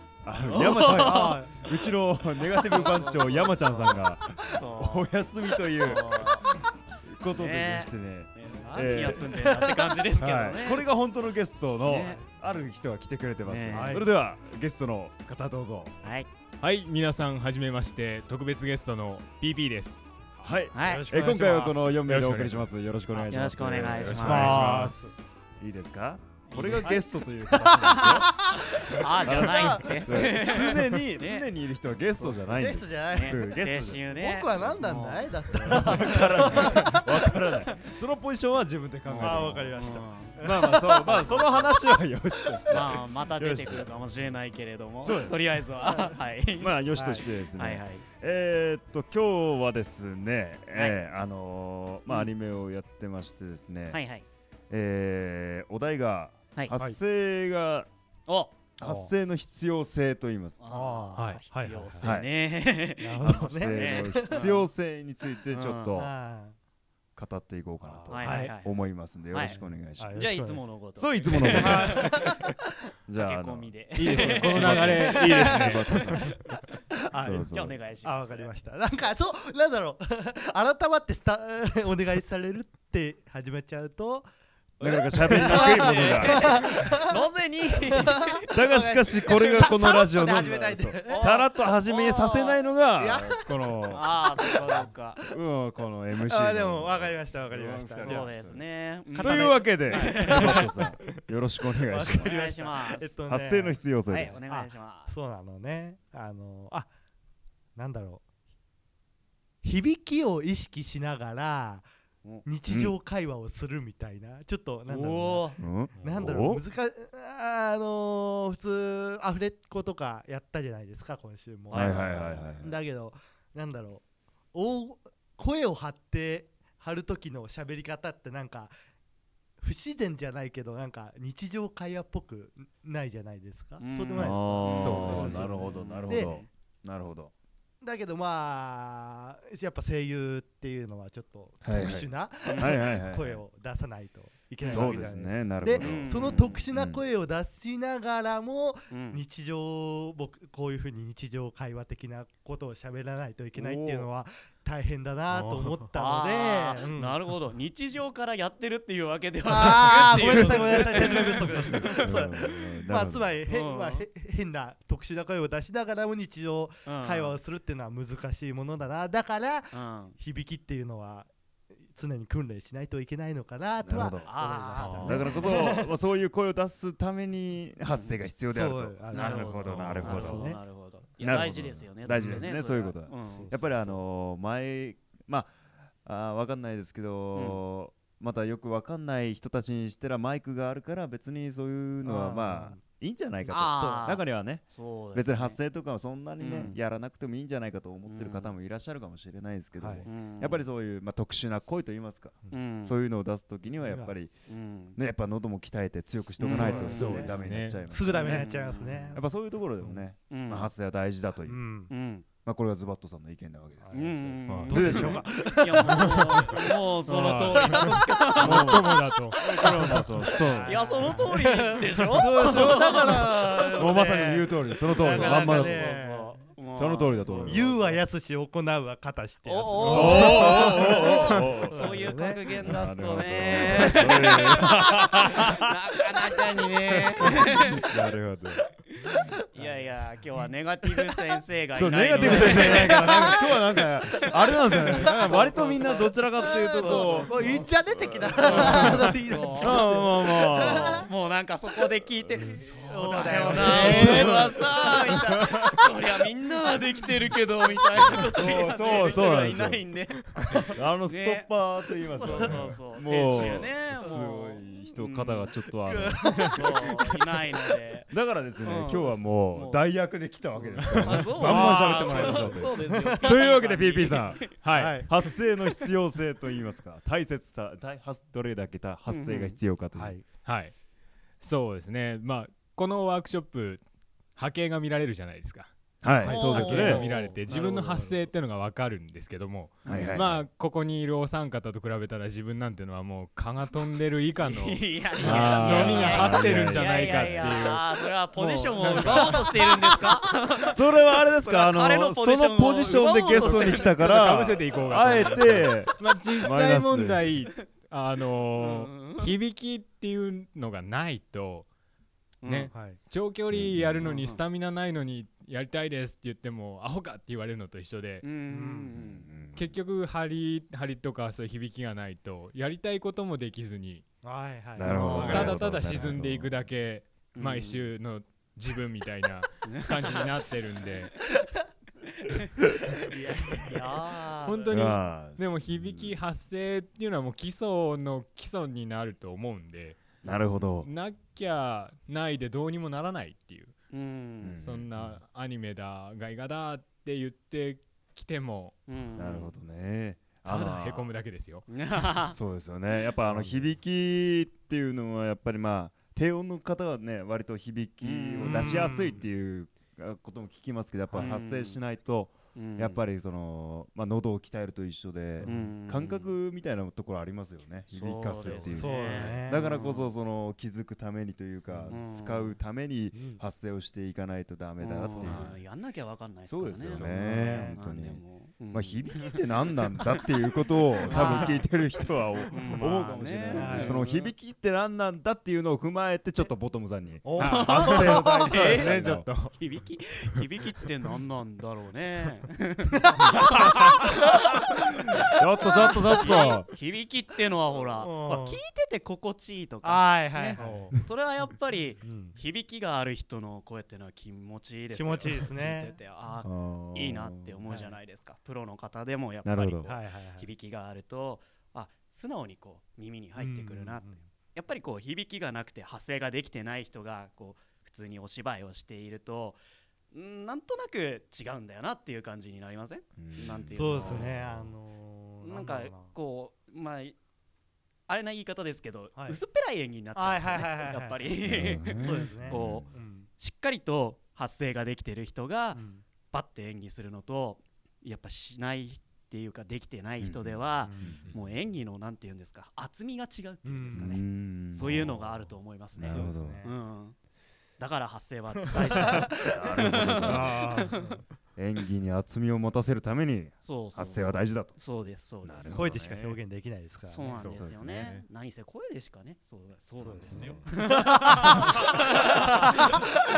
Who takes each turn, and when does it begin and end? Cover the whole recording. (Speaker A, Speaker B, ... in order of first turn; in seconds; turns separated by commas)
Speaker A: 0.2-9.3, Speaker B: 0.5-1.6, Speaker C: 0.9-1.6, Speaker B: 2.6-5.1, Speaker B: 5.7-6.5, Speaker B: 7.3-10.9, Speaker C: 8.4-10.4, Speaker A: 10.2-15.9, Speaker B: 11.8-12.2, Speaker B: 13.4-14.0, Speaker C: 13.7-14.1, Speaker B: 16.0-16.3, Speaker D: 16.6-20.1, Speaker A: 20.4-24.7, Speaker B: 20.7-21.1, Speaker C: 20.8-21.9, Speaker D: 22.0-22.9, Speaker B: 23.2-24.9, Speaker D: 23.9-25.0, Speaker C: 24.2-25.1, Speaker A: 25.6-28.3, Speaker B: 26.5-27.0, Speaker C: 26.8-30.3, Speaker B: 27.6-28.3, Speaker B: 28.9-31.5, Speaker A: 29.2-34.0, Speaker C: 32.2-33.5, Speaker B: 32.2-36.7, Speaker C: 34.1-37.0, Speaker A: 35.5-39.8, Speaker B: 39.0-41.7, Speaker C: 39.2-41.3, Speaker A: 40.4-43.9, Speaker B: 42.7-48.0, Speaker A: 45.0-45.5, Speaker C: 45.8-46.2, Speaker A: 46.6-54.0, Speaker C: 46.9-47.3, Speaker B: 50.7-51.0, Speaker B: 53.9-54.3, Speaker A: 54.7-57.9, Speaker B: 58.3-58.7, Speaker A: 58.8-60.6, Speaker C: 58.8-59.1, Speaker B: 60.6-64.7, Speaker C: 60.7-62.1, Speaker A: 62.0-62.4, Speaker C: 63.0-64.6, Speaker A: 63.2-66.1, Speaker B: 65.5-66.0, Speaker C: 65.9-66.5, Speaker A: 67.2-72.3, Speaker C: 67.9-68.5, Speaker B: 68.1-69.6, Speaker D: 68.2-68.5, Speaker C: 69.4-70.6, Speaker B: 70.1-72.3, Speaker C: 71.4-72.5, Speaker A: 73.1-76.4, Speaker B: 73.2-76.6, Speaker D: 74.0-76.3, Speaker C: 74.9-75.7, Speaker C: 77.0-84.3, Speaker A: 77.2-77.8, Speaker B: 77.5-78.5, Speaker A: 84.8-86.7, Speaker B: 84.8-88.5, Speaker C: 85.3-87.1, Speaker C: 87.9-91.3, Speaker A: 88.5-94.4, Speaker B: 89.2-89.7, Speaker B: 91.0-92.7, Speaker C: 93.0-94.9, Speaker B: 93.8-95.2, Speaker A: 95.3-98.6, Speaker C: 96.2-98.3, Speaker B: 98.0-100.7, Speaker C: 99.1-101.2, Speaker A: 99.2-102.3, Speaker C: 101.8-106.9, Speaker B: 102.0-103.2, Speaker A: 103.3-104.4, Speaker B: 104.1-105.1, Speaker C: 107.8-108.2, Speaker C: 109.6-111.9, Speaker C: 112.4-122.0, Speaker A: 112.7-113.0, Speaker B: 114.9-115.6, Speaker A: 115.6-116.6, Speaker D: 116.0-116.3, Speaker B: 121.7-122.5, Speaker A: 121.7-122.8, Speaker C: 122.5-128.7, Speaker C: 129.6-136.4, Speaker B: 133.8-136.5, Speaker A: 134.1-137.3, Speaker D: 134.8-135.5, Speaker C: 137.8-157.2, Speaker A: 141.6-143.4, Speaker B: 142.5-142.7, Speaker B: 144.6-145.1, Speaker A: 144.6-147.0, Speaker B: 145.8-146.7, Speaker B: 148.9-149.2, Speaker B: 153.5-154.1, Speaker D: 155.3-155.9, Speaker B: 155.9-162.1, Speaker C: 159.4-171.3, Speaker A: 160.1-163.3, Speaker B: 163.5-164.1, Speaker B: 166.8-167.4, Speaker B: 169.7-170.2, Speaker C: 171.8-175.9, Speaker A: 173.8-174.3, Speaker B: 174.2-175.7, Speaker D: 174.8-175.3, Speaker A: 175.0-180.6, Speaker B: 177.9-178.2, Speaker C: 178.5-180.6, Speaker B: 179.1-184.0, Speaker A: 181.2-204.4, Speaker C: 182.2-182.4, Speaker C: 183.3-183.6, Speaker B: 187.3-187.6, Speaker C: 192.0-192.8, Speaker B: 193.5-195.6, Speaker C: 193.7-194.1, Speaker B: 196.4-196.8, Speaker B: 198.1-198.5, Speaker C: 199.8-200.1, Speaker B: 200.1-200.7, Speaker B: 202.5-203.0, Speaker C: 203.8-204.2, Speaker B: 204.5-205.0, Speaker A: 204.9-211.6, Speaker B: 206.4-207.4, Speaker D: 206.5-207.8, Speaker C: 206.5-207.3, Speaker C: 207.9-209.2, Speaker B: 208.1-209.2, Speaker C: 209.8-210.1, Speaker B: 210.3-210.7, Speaker C: 211.4-211.9, Speaker B: 211.9-212.3, Speaker A: 212.4-215.2, Speaker C: 213.8-216.7, Speaker B: 213.9-224.2, Speaker D: 214.5-215.2, Speaker D: 215.8-216.5, Speaker D: 217.0-220.8, Speaker C: 217.4-218.5, Speaker A: 218.4-220.8, Speaker C: 220.2-226.4, Speaker A: 223.7-226.0, Speaker B: 224.9-228.0, Speaker A: 226.7-227.8, Speaker C: 227.3-232.5, Speaker B: 229.4-237.9, Speaker D: 229.8-230.2, Speaker A: 229.8-235.6, Speaker A: 237.2-238.6, Speaker B: 239.5-243.8, Speaker C: 239.5-239.9, Speaker A: 241.7-247.6, Speaker C: 242.2-243.1, Speaker B: 244.4-247.7, Speaker C: 244.9-245.4, Speaker C: 246.8-251.1, Speaker A: 248.2-249.0, Speaker B: 248.2-260.2, Speaker D: 248.6-248.9, Speaker A: 249.6-251.1, Speaker D: 252.3-252.6, Speaker C: 252.6-254.3, Speaker A: 253.5-256.0, Speaker D: 253.6-254.4, Speaker A: 258.0-259.8, Speaker A: 260.4-266.7, Speaker B: 261.1-261.5, Speaker C: 262.1-264.2, Speaker B: 262.2-265.5, Speaker C: 265.9-267.0, Speaker B: 266.5-274.6, Speaker A: 268.1-280.2, Speaker C: 270.9-273.4, Speaker D: 271.1-271.6, Speaker D: 274.0-275.1, Speaker C: 274.7-275.1, Speaker B: 279.1-279.6, Speaker C: 279.9-280.2, Speaker D: 280.4-280.7, Speaker D: 281.4-283.8, Speaker D: 284.4-299.5, Speaker A: 286.0-287.1, Speaker C: 286.2-287.1, Speaker B: 286.7-288.3, Speaker A: 289.8-290.4, Speaker B: 294.4-305.4, Speaker A: 295.2-297.6, Speaker A: 300.7-307.3, Speaker D: 303.3-311.6, Speaker B: 308.5-309.3, Speaker B: 312.4-312.7, Speaker D: 312.4-318.2, Speaker C: 312.7-313.0, Speaker A: 313.5-314.1, Speaker B: 314.0-314.4, Speaker B: 318.2-319.3, Speaker C: 318.5-318.9, Speaker A: 318.9-319.7, Speaker D: 319.5-324.0, Speaker C: 324.2-325.6, Speaker A: 324.7-326.6, Speaker D: 324.8-331.1, Speaker B: 325.2-325.6, Speaker B: 327.3-327.9, Speaker B: 329.7-330.4, Speaker B: 332.2-332.5, Speaker B: 333.1-334.9, Speaker C: 333.5-334.3, Speaker D: 334.4-340.1, Speaker A: 334.7-336.2, Speaker A: 340.2-340.9, Speaker D: 340.8-343.7, Speaker B: 343.9-344.6, Speaker A: 344.4-344.9, Speaker D: 344.6-348.7, Speaker B: 348.9-349.5, Speaker A: 349.1-351.1, Speaker D: 350.4-351.9, Speaker B: 351.7-352.4, Speaker A: 352.3-375.6, Speaker C: 353.3-353.6, Speaker B: 358.0-359.1, Speaker C: 358.4-359.2, Speaker C: 361.1-361.4, Speaker B: 361.2-361.8, Speaker B: 362.5-363.0, Speaker C: 365.4-365.8, Speaker B: 365.4-366.3, Speaker B: 367.9-370.1, Speaker C: 368.4-369.7, Speaker C: 371.7-372.0, Speaker B: 371.9-372.6, Speaker B: 374.8-380.2, Speaker C: 375.2-375.5, Speaker A: 376.5-389.3, Speaker C: 376.9-377.8, Speaker B: 381.0-381.6, Speaker C: 381.1-381.6, Speaker B: 382.5-384.3, Speaker C: 383.5-384.0, Speaker C: 387.2-388.6, Speaker D: 387.4-389.6, Speaker B: 387.4-394.4, Speaker C: 392.9-393.7, Speaker A: 393.5-394.8, Speaker A: 395.3-396.7, Speaker B: 396.1-419.6, Speaker C: 397.9-398.6, Speaker C: 399.8-401.0, Speaker C: 402.0-402.4, Speaker C: 404.9-405.9, Speaker A: 406.4-407.5, Speaker C: 407.7-407.9, Speaker A: 409.4-409.9, Speaker C: 409.9-410.5, Speaker C: 413.4-414.2, Speaker B: 420.1-424.3, Speaker A: 423.2-424.7, Speaker C: 423.7-426.1, Speaker B: 425.4-427.2, Speaker B: 428.1-447.1, Speaker C: 429.1-429.4, Speaker C: 430.1-431.3, Speaker A: 431.4-432.9, Speaker C: 432.0-433.3, Speaker C: 435.7-436.0, Speaker A: 440.2-441.3, Speaker C: 440.8-441.3, Speaker C: 443.6-444.1, Speaker A: 443.9-445.4, Speaker A: 445.9-446.6, Speaker C: 446.1-446.7, Speaker B: 447.8-451.0, Speaker C: 448.6-449.5, Speaker A: 448.8-450.7, Speaker C: 450.2-451.2, Speaker A: 451.6-454.8, Speaker B: 453.6-456.3, Speaker A: 455.4-456.3, Speaker C: 455.7-457.4, Speaker B: 457.0-462.7, Speaker D: 457.2-458.2, Speaker A: 457.4-458.1, Speaker C: 460.0-462.4, Speaker A: 460.3-460.6, Speaker A: 461.5-461.8